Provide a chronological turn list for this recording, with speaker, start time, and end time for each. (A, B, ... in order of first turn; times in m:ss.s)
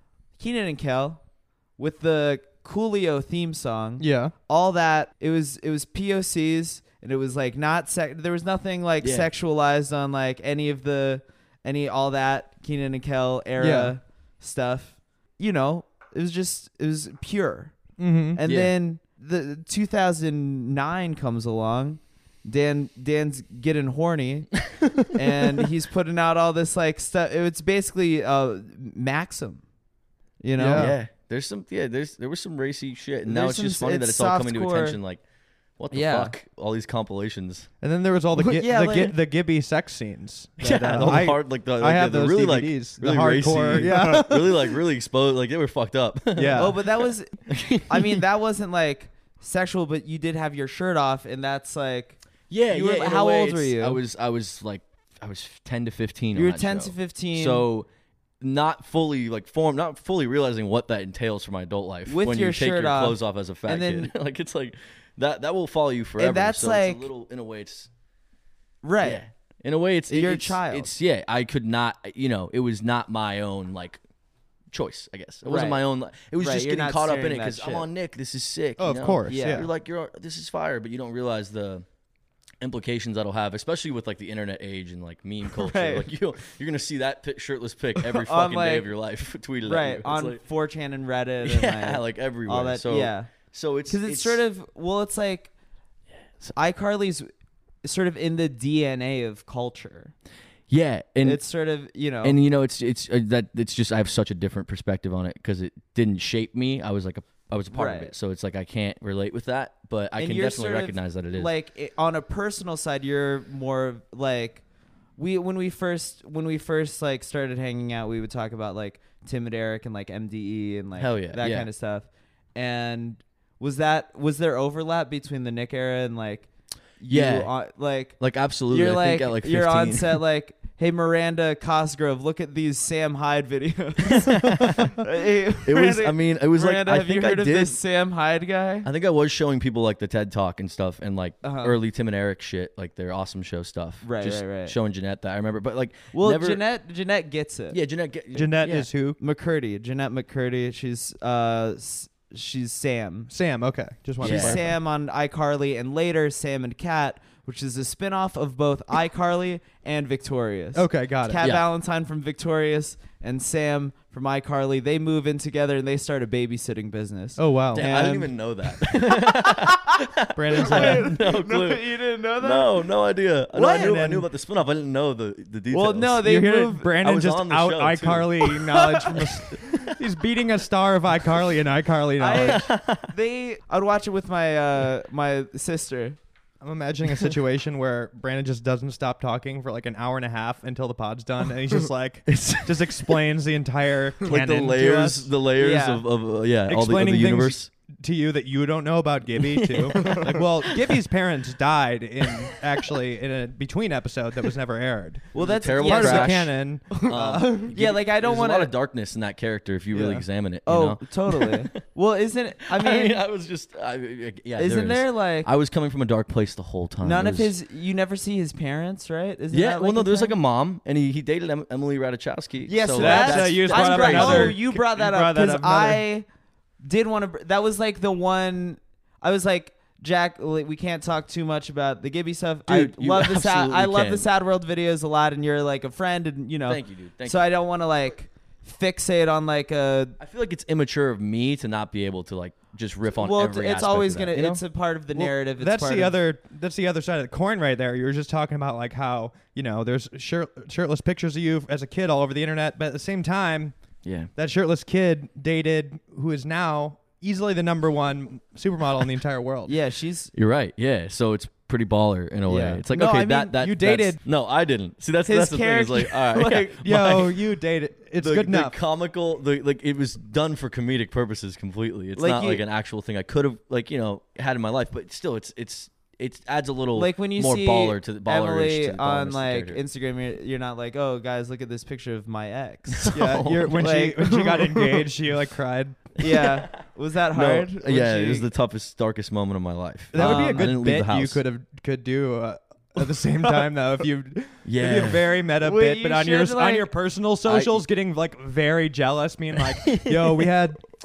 0:00.4-0:01.2 A
0:01.8-0:17.8 A
0:04.0-0:04.3 B
0:09.0-0:09.3 C
0:13.6-0:13.9 B
0:18.0-0:18.4 B
0:18.3-0:29.6 A
0:18.4-0:18.7 C
0:30.4-0:31.0 A
0:30.6-0:31.0 B
0:30.7-0:35.2 C
0:33.2-0:35.0 A
0:35.8-0:37.7 C
0:35.9-0:36.3 A
0:37.8-0:44.8 B
0:38.3-0:39.2 A
0:40.6-0:46.9 C
0:40.6-0:41.2 A
0:43.7-0:44.3 A
0:46.4-0:46.8 B
0:46.5-0:47.4 A
0:47.5-0:48.2 C
0:47.9-0:54.0 A
0:52.5-0:57.9 C
0:56.3-0:57.6 A
0:58.4-1:07.9 C
1:02.1-1:04.1 A
1:06.2-1:07.0 A
1:08.8-1:09.2 A
1:09.0-1:14.0 C
1:10.1-1:10.9 A
1:14.7-1:21.9 C
1:15.4-1:15.8 A
1:16.4-1:17.9 A
1:18.8-1:19.7 B
1:19.3-1:19.7 A
1:22.6-1:30.4 C
1:25.5-1:26.1 A
1:28.0-1:28.9 A
1:29.6-1:33.3 A
1:31.4-1:34.4 C
1:33.9-1:35.5 A
1:36.6-1:37.3 A
1:37.8-1:40.1 A
1:40.7-1:41.4 C
1:41.2-1:42.4 A
1:42.2-1:51.5 C
1:47.7-1:48.1 A
1:50.2-1:54.6 A
1:55.2-2:06.5 A
2:01.0-2:01.7 C
2:07.0-2:18.9 A
2:07.1-2:07.5 C
2:08.2-2:10.2 C
2:14.1-2:15.0 C
2:15.6-2:17.8 C
2:18.8-2:26.6 C
2:21.4-2:21.8 A
2:24.0-2:24.8 A
2:26.1-2:27.8 A
2:27.7-2:28.9 C
2:28.3-2:29.2 B
2:29.2-2:33.3 A
2:33.3-2:34.7 B
2:34.2-2:48.2 A
2:34.2-2:34.6 C
2:40.8-2:41.4 B
2:41.4-2:41.6 C
2:47.4-2:48.3 B
2:47.7-2:51.8 C
2:49.5-2:49.8 A
2:50.4-2:51.1 B
2:50.6-2:52.8 A
2:52.4-2:56.2 C
2:53.6-2:54.0 A
2:53.6-2:54.3 B
2:55.7-2:57.0 A
2:56.2-3:02.6 B
2:57.0-2:58.6 C
2:58.6-2:59.3 A
3:02.2-3:06.2 A
3:02.3-3:03.1 C
3:06.6-3:15.3 B
3:12.3-3:13.1 C
3:14.2-3:17.7 C
3:15.6-3:16.0 A
3:16.7-3:25.3 B
3:19.9-3:20.4 C
3:19.9-3:20.4 A
3:25.3-3:28.7 A
3:25.3-3:31.8 C
3:25.8-3:27.7 B
3:29.9-3:33.2 A
3:32.7-3:37.5 C
3:34.6-3:35.5 A
3:37.0-3:40.3 A
3:39.5-3:44.6 C
3:42.7-3:46.3 A
3:43.0-3:46.0 B
3:46.8-4:00.2 A
3:52.7-3:54.3 C
3:56.6-3:57.5 C
4:00.2-4:04.6 C
4:03.1-4:06.2 A
4:05.2-4:13.8 B
4:14.0-4:14.3 C
4:14.4-4:19.8 B
4:19.6-4:20.3 A
4:20.3-4:27.3 C
4:22.4-4:24.2 A
4:25.2-4:27.1 A
4:26.8-4:28.8 B
4:28.2-4:39.8 C
4:32.2-4:32.6 A
4:36.9-4:45.1 A
4:43.0-4:43.8 C
4:43.1-4:46.0 B
4:46.2-4:48.5 A
4:46.2-4:46.6 C
4:47.3-4:51.4 C
4:50.1-5:00.8 B
4:50.1-4:50.7 A
4:53.0-4:53.7 A
4:54.6-4:55.3 C
4:55.5-4:56.9 A
4:57.4-4:57.8 C
4:59.5-5:00.5 C